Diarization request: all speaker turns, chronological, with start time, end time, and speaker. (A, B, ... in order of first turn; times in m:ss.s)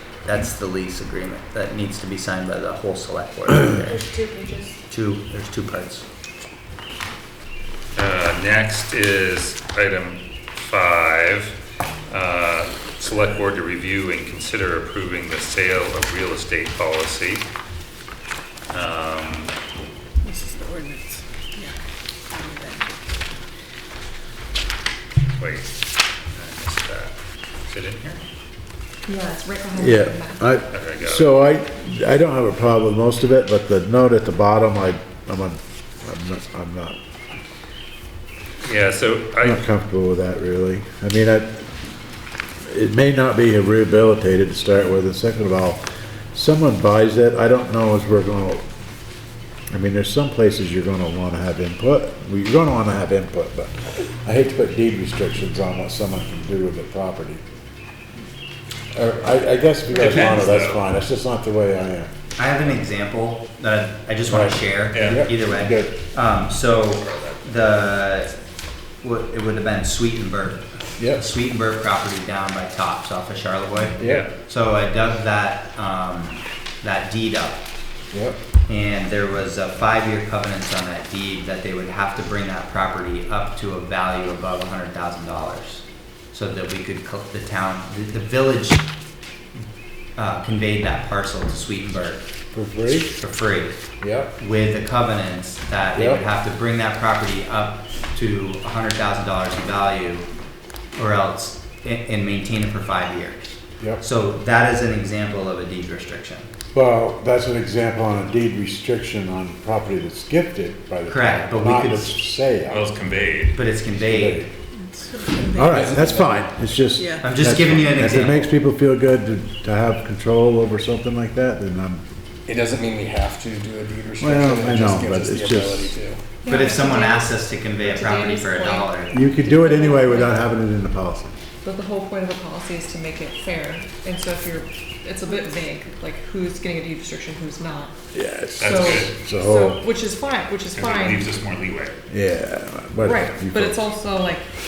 0:00.2-0:04.1 A
0:03.9-0:04.8 B
0:04.9-0:06.0 A
0:08.0-0:11.6 C
0:12.1-0:17.5 C
0:18.7-0:19.5 C
0:20.3-0:21.0 D
0:22.3-0:22.9 D
0:25.4-0:25.7 C
0:26.3-0:28.2 C
0:29.1-0:30.6 B
0:29.8-0:37.0 E
0:30.7-0:31.3 C
0:38.6-0:39.6 C
0:39.4-0:41.7 E
0:42.7-0:45.8 E
0:46.3-0:48.6 E
0:49.7-0:57.4 E
0:58.9-1:02.1 E
0:59.9-1:00.8 C
0:59.9-1:00.5 A
1:02.4-1:08.3 A
1:04.3-1:05.9 E
1:04.9-1:05.3 C
1:07.0-1:07.5 C
1:09.0-1:17.6 A
1:11.0-1:11.3 E
1:14.0-1:14.3 E
1:14.0-1:14.3 C
1:18.1-1:18.4 E
1:18.7-1:28.9 A
1:30.2-1:32.3 A
1:32.5-1:33.2 E
1:33.2-1:33.8 A
1:34.0-1:34.3 E
1:34.4-1:40.3 A
1:36.0-1:36.2 E
1:41.0-1:46.5 A
1:46.7-1:52.9 E
1:51.1-1:52.1 A
1:52.7-1:53.6 C
1:53.6-1:54.5 A
1:54.0-1:54.5 E
1:54.9-1:56.0 D
1:55.4-1:56.6 F
1:55.5-2:02.0 E
1:57.0-1:57.2 D
1:57.2-1:58.6 A
2:02.5-2:06.2 F
2:04.2-2:06.0 E
2:06.4-2:10.5 B
2:06.5-2:09.2 A
2:09.1-2:11.4 E
2:11.6-2:17.9 B
2:18.1-2:19.8 E
2:18.6-2:19.2 C
2:18.6-2:21.3 B
2:20.7-2:22.0 C
2:22.1-2:23.8 E
2:23.0-2:24.5 B